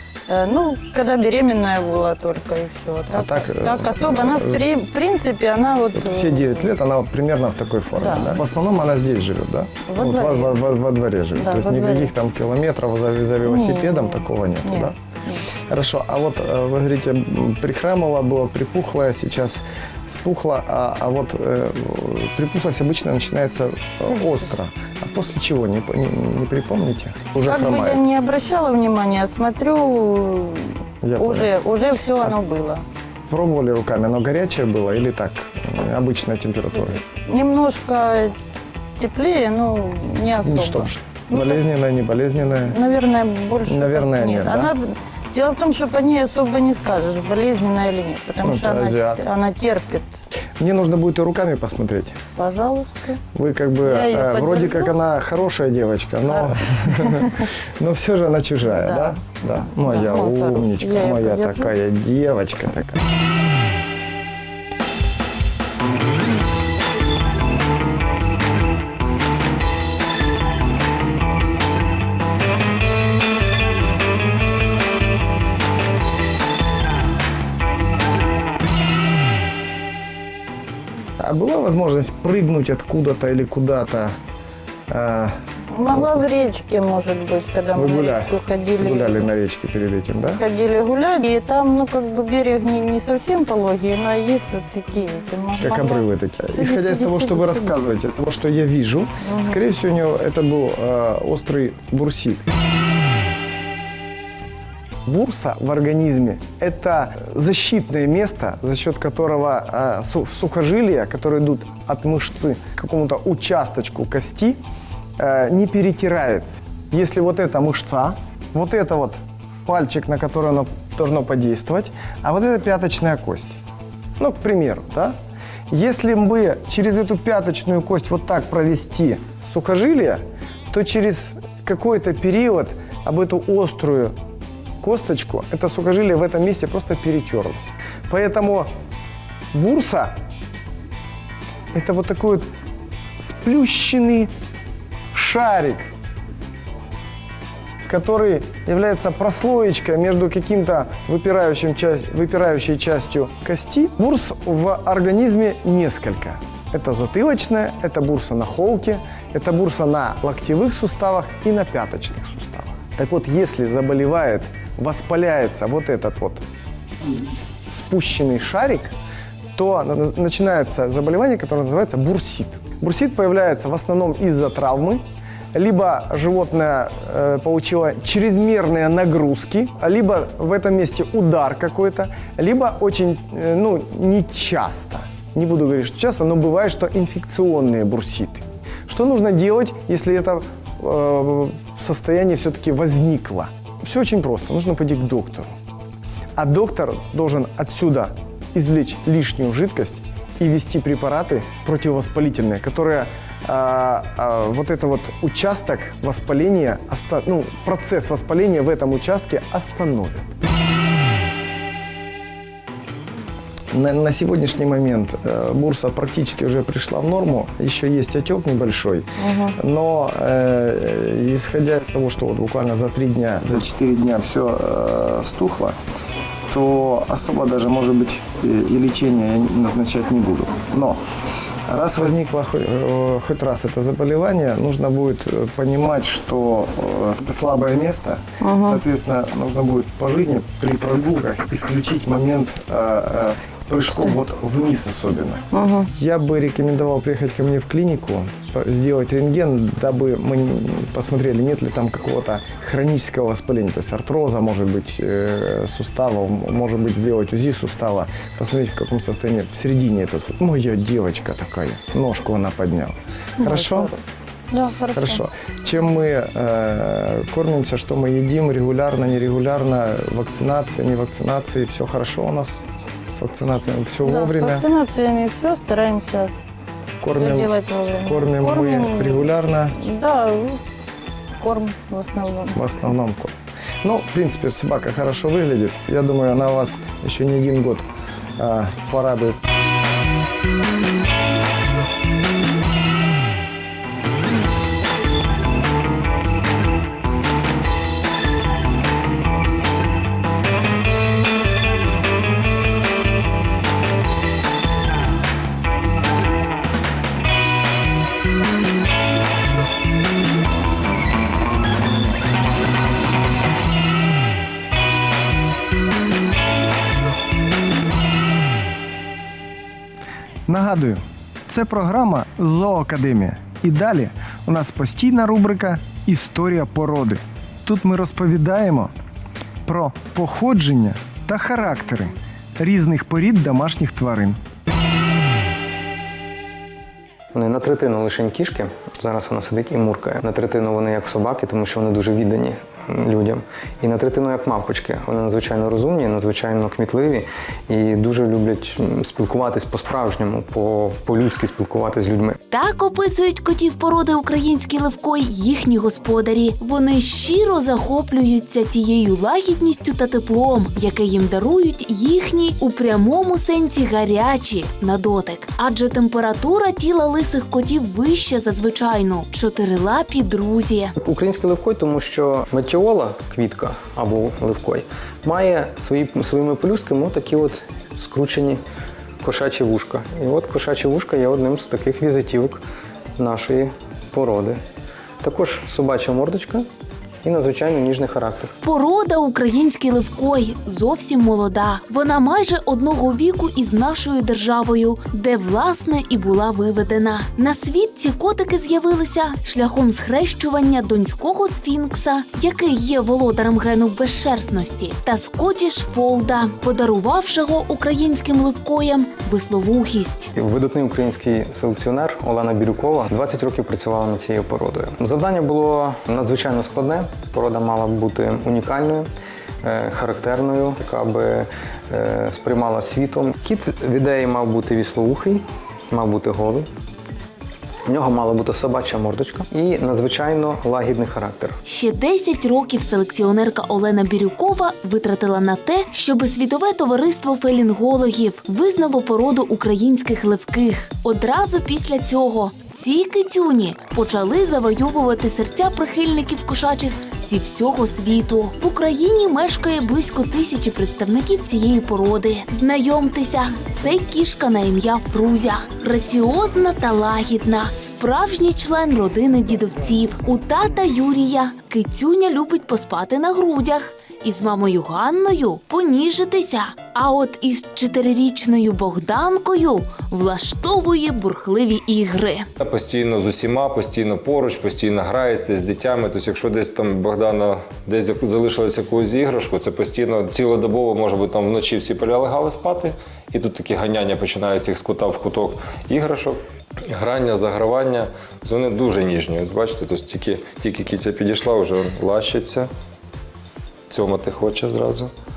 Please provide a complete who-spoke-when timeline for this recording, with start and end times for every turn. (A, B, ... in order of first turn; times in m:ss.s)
0:00.3-0:06.6 A
0:03.1-0:04.7 B
0:05.9-0:14.9 B
0:07.9-0:08.4 A
0:09.9-0:10.6 A
0:11.3-0:12.1 A
0:13.4-0:15.4 A
0:15.7-0:28.1 B
0:24.0-0:24.6 A
0:27.4-0:32.8 A
0:31.0-0:31.6 B
0:33.3-0:37.0 B
0:37.1-0:38.3 A
0:39.0-0:41.5 A
0:40.4-0:42.8 B
0:42.7-0:50.1 A
0:43.7-0:44.7 B
0:48.4-0:49.2 B
0:50.6-0:52.2 B
0:52.4-0:53.2 A
0:53.3-1:03.0 B
0:53.8-0:55.0 A
0:56.3-0:57.2 A
0:58.6-0:59.2 A
0:59.8-1:01.7 A
1:21.2-1:24.1 B
1:24.9-1:25.3 B
1:25.7-1:29.3 A
1:27.7-1:30.4 B
1:30.3-1:37.8 A
1:35.6-1:42.4 B
1:39.2-1:39.6 A
1:45.1-1:54.6 B
1:55.2-2:03.6 B
2:04.2-2:05.1 B
2:05.7-2:14.1 B
2:14.8-2:18.7 B
2:19.5-2:20.1 B
2:21.7-2:22.5 B
2:23.2-2:24.3 B
2:25.1-2:25.9 B
2:27.9-2:46.4 B
2:47.7-2:48.9 B
2:49.6-2:55.0 B
2:55.5-3:15.5 B
3:16.4-3:30.3 B
3:33.7-3:45.8 B
3:39.2-3:39.6 A
3:46.5-3:51.0 B
3:51.7-4:23.9 B
3:58.4-3:58.8 A
4:05.5-4:05.9 A
4:23.4-4:25.2 A
4:24.9-4:32.6 B
4:33.1-4:34.7 B
4:34.0-4:36.3 A
4:37.0-4:37.5 B
4:37.1-4:40.6 A
4:38.0-4:39.8 B
4:41.4-4:42.6 A
4:42.5-4:47.8 B
4:48.4-4:49.4 B
5:20.5-5:28.9 B
5:29.6-5:34.4 B
5:37.3-5:52.4 C
5:52.5-6:10.9 D
6:10.9-6:18.6 C
6:19.2-6:22.6 C
6:23.2-6:24.6 C
6:25.2-6:26.7 C
6:27.2-6:28.5 C
6:28.6-6:50.3 D
6:50.3-6:59.1 C
6:59.6-7:06.7 C
7:07.9-7:11.6 C
7:11.6-7:52.4 D
7:52.6-8:12.7 E
8:13.9-8:15.1 E